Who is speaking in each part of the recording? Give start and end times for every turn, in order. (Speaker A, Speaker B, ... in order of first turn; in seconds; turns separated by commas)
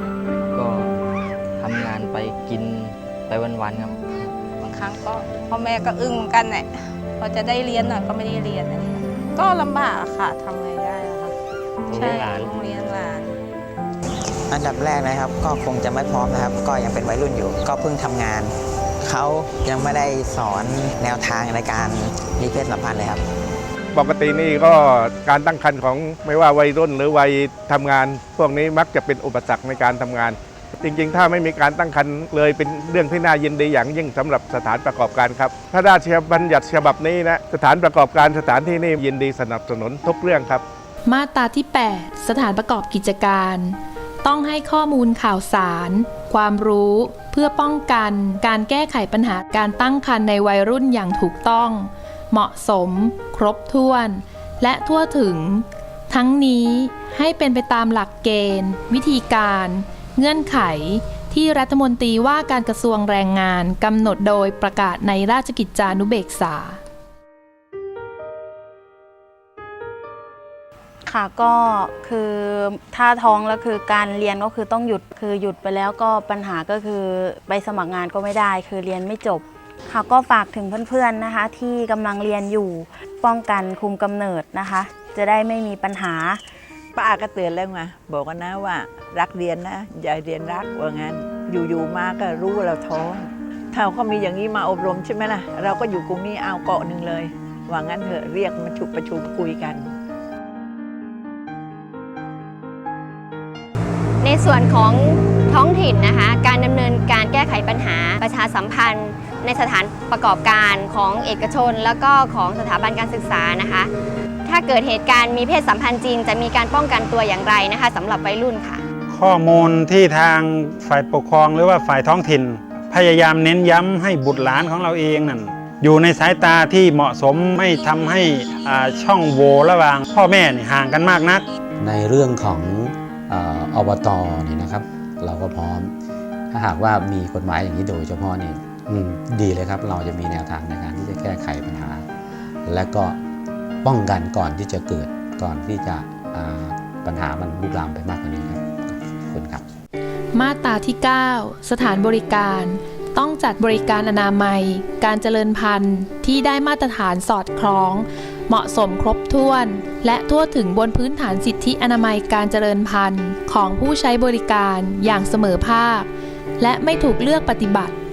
Speaker A: 0.5-0.9, Speaker A: 1.6-4.2, Speaker B: 4.7-11.3, Speaker B: 11.9-13.2, Speaker C: 14.5-23.2, Speaker D: 23.9-40.6, Speaker E: 41.0-66.8, Speaker F: 71.1-86.4, Speaker G: 87.0-99.8, Speaker H: 104.2-113.9, Speaker H: 114.5-118.8, Speaker I: 119.1-131.4, Speaker J: 131.8-135.9, Speaker J: 136.5-142.1, Speaker J: 142.7-143.2, Speaker J: 143.8-149.7, Speaker E: 150.3-168.0